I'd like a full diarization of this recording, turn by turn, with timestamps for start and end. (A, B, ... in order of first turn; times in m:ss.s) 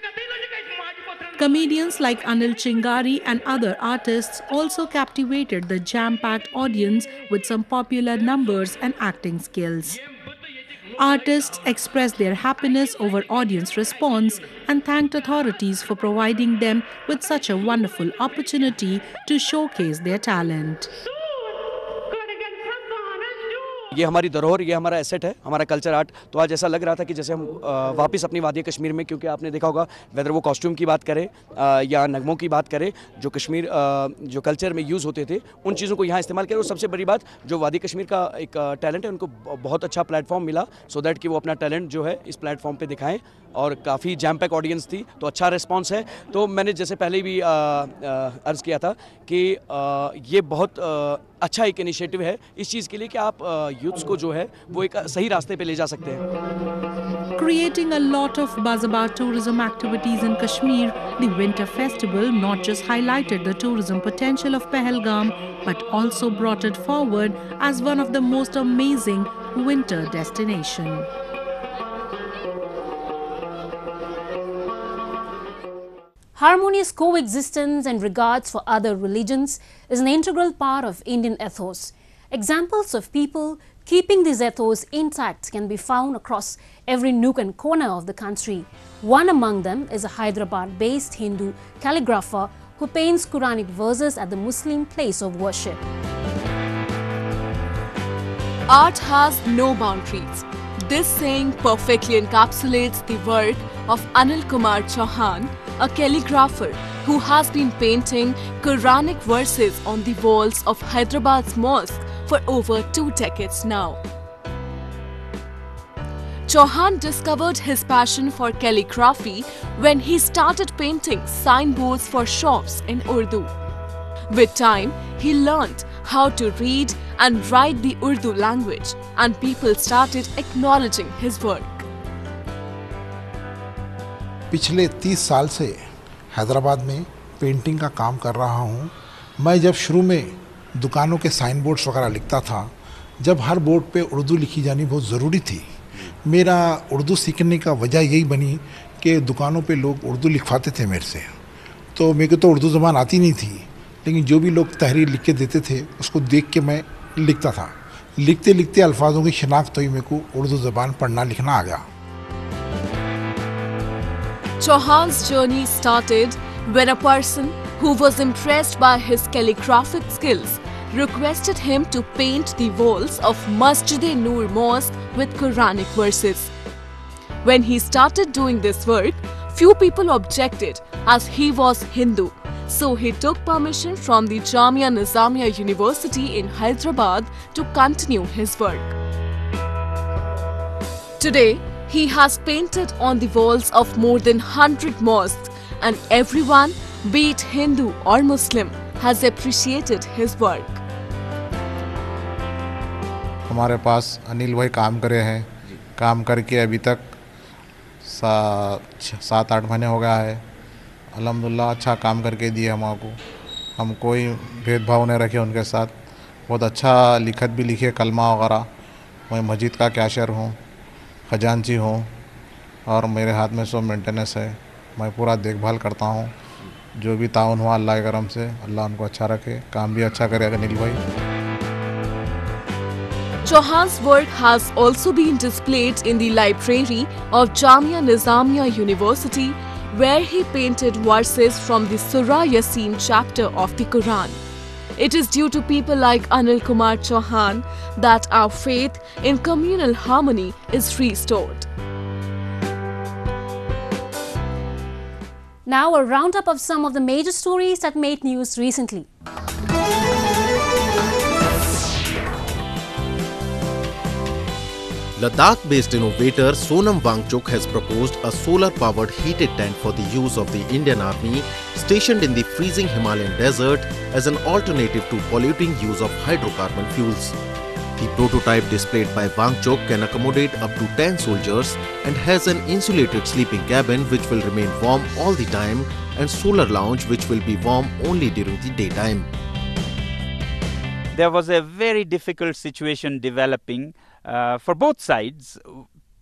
0:01.4-0:10.0 A
0:11.0-0:20.9 A
0:23.9-0:56.2 B
0:57.4-1:11.1 A
1:16.4-1:35.8 C
1:38.7-1:54.0 D
1:56.5-2:03.5 D
2:04.3-2:11.8 D
2:14.5-2:31.4 E
2:31.9-2:41.8 E
2:44.6-2:56.5 D
2:57.4-3:08.9 D
3:11.2-3:20.8 D
3:23.5-3:27.2 F
3:28.0-3:30.4 F
3:31.1-3:33.2 F
3:33.8-3:35.9 F
3:36.5-3:38.7 F
3:39.3-3:40.6 F
3:41.3-3:42.1 F
3:42.8-3:46.4 F
3:47.0-3:51.0 F
3:53.4-4:04.4 D
4:05.0-4:11.7 D
4:15.6-4:19.1 C
4:25.2-4:37.4 G
4:38.0-4:49.3 G
4:51.1-4:55.9 H